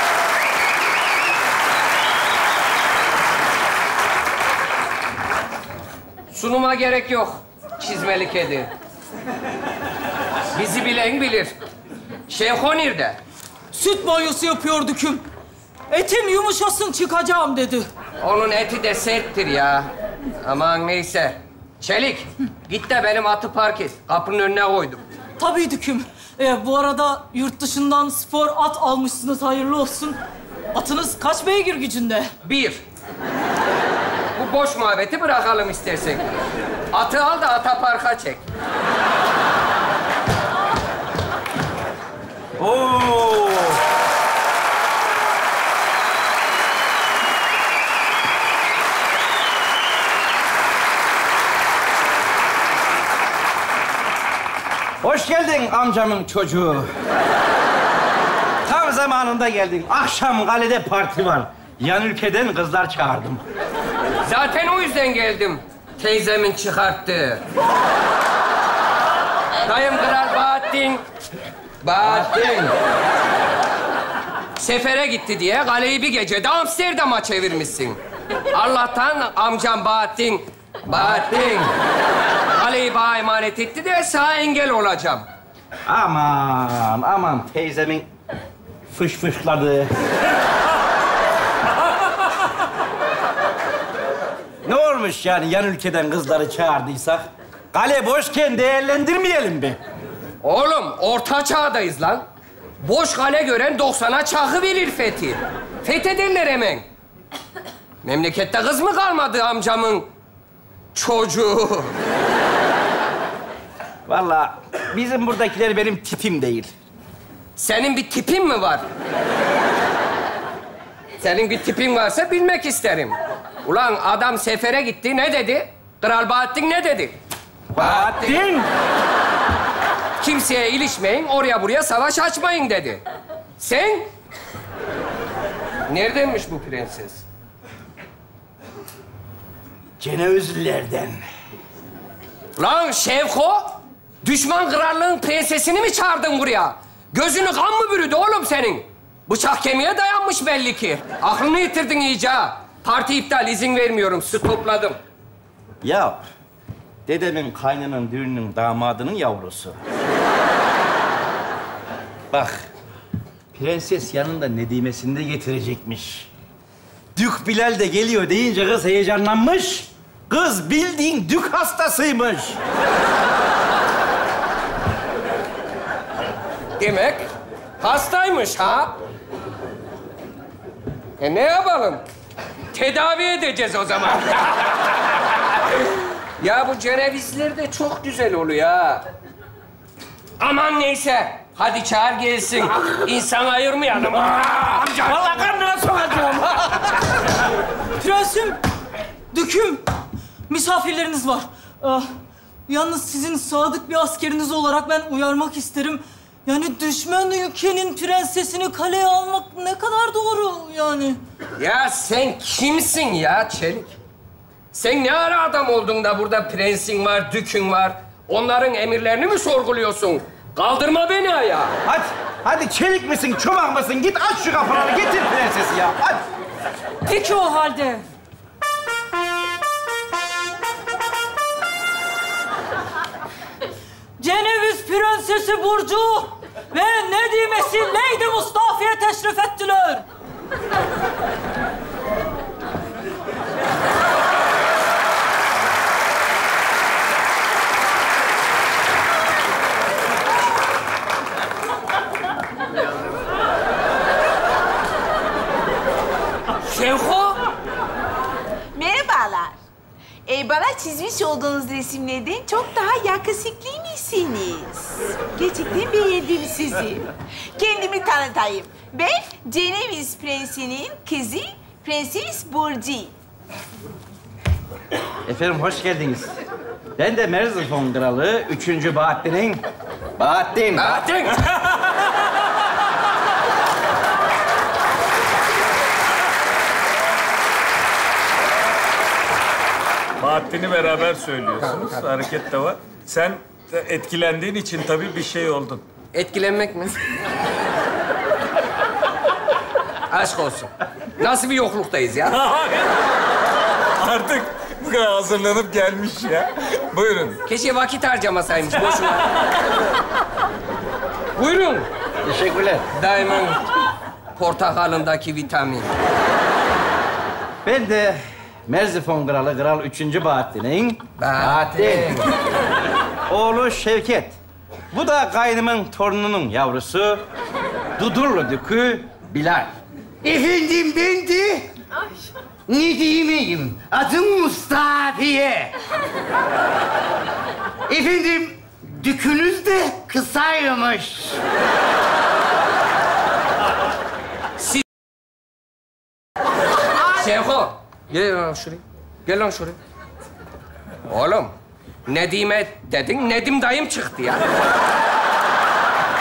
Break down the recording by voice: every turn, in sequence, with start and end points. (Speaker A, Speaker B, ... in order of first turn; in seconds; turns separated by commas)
Speaker A: 6.3-8.7, Speaker A: 10.5-11.5, Speaker A: 12.3-13.2, Speaker B: 13.7-15.2, Speaker B: 15.9-17.9, Speaker A: 18.2-19.9, Speaker A: 20.4-25.0, Speaker B: 25.4-30.2, Speaker B: 30.7-32.3, Speaker A: 32.4-32.8, Speaker A: 34.3-36.3, Speaker A: 36.9-38.4, Speaker C: 42.6-43.8, Speaker C: 55.0-56.9, Speaker C: 58.6-63.4, Speaker A: 64.2-67.4, Speaker A: 69.6-71.0, Speaker A: 71.8-72.7, Speaker C: 72.0-72.7, Speaker A: 74.6-78.0, Speaker A: 78.5-81.7, Speaker C: 80.9-81.7, Speaker A: 82.5-85.3, Speaker C: 85.9-88.1, Speaker C: 88.9-89.9, Speaker C: 94.7-99.8, Speaker A: 100.4-102.2, Speaker A: 102.8-106.8, Speaker A: 108.0-110.1, Speaker A: 110.9-111.9, Speaker C: 114.1-116.7, Speaker A: 117.6-118.8, Speaker A: 121.2-127.2, Speaker C: 127.7-128.7, Speaker A: 127.8-128.4, Speaker A: 130.2-133.0, Speaker A: 133.6-134.1, Speaker A: 135.9-137.2, Speaker C: 140.0-141.2, Speaker A: 142.6-155.0, Speaker C: 155.8-156.2, Speaker C: 157.1-159.8, Speaker C: 162.3-162.6, Speaker C: 163.5-166.3, Speaker C: 167.2-172.6, Speaker A: 176.8-177.2, Speaker A: 177.8-179.0, Speaker A: 181.2-182.0, Speaker A: 182.7-189.1, Speaker A: 190.4-195.5, Speaker C: 195.1-196.7, Speaker B: 198.0-198.6, Speaker B: 199.3-199.8, Speaker B: 200.5-202.1, Speaker B: 202.7-211.2, Speaker A: 211.6-213.9, Speaker A: 214.7-221.8, Speaker C: 221.8-226.2, Speaker B: 227.1-228.1, Speaker B: 234.2-240.0, Speaker A: 256.6-257.4, Speaker D: 258.7-259.6, Speaker D: 260.2-273.1, Speaker C: 275.2-276.3, Speaker C: 277.0-279.6, Speaker C: 280.2-281.0, Speaker A: 280.7-281.4, Speaker E: 290.2-295.8, Speaker A: 291.6-292.0, Speaker A: 296.1-297.0, Speaker A: 300.1-302.4, Speaker E: 304.0-307.4, Speaker A: 307.4-309.3, Speaker A: 311.4-311.9, Speaker C: 312.2-312.9, Speaker A: 312.9-313.6, Speaker A: 314.4-315.9, Speaker C: 317.6-322.2, Speaker A: 321.2-322.3, Speaker C: 323.3-324.4, Speaker C: 324.9-327.2, Speaker C: 328.0-329.7, Speaker F: 330.2-331.6, Speaker F: 332.7-335.7, Speaker F: 337.9-341.3, Speaker A: 347.1-349.8, Speaker A: 351.1-351.5, Speaker A: 352.1-354.4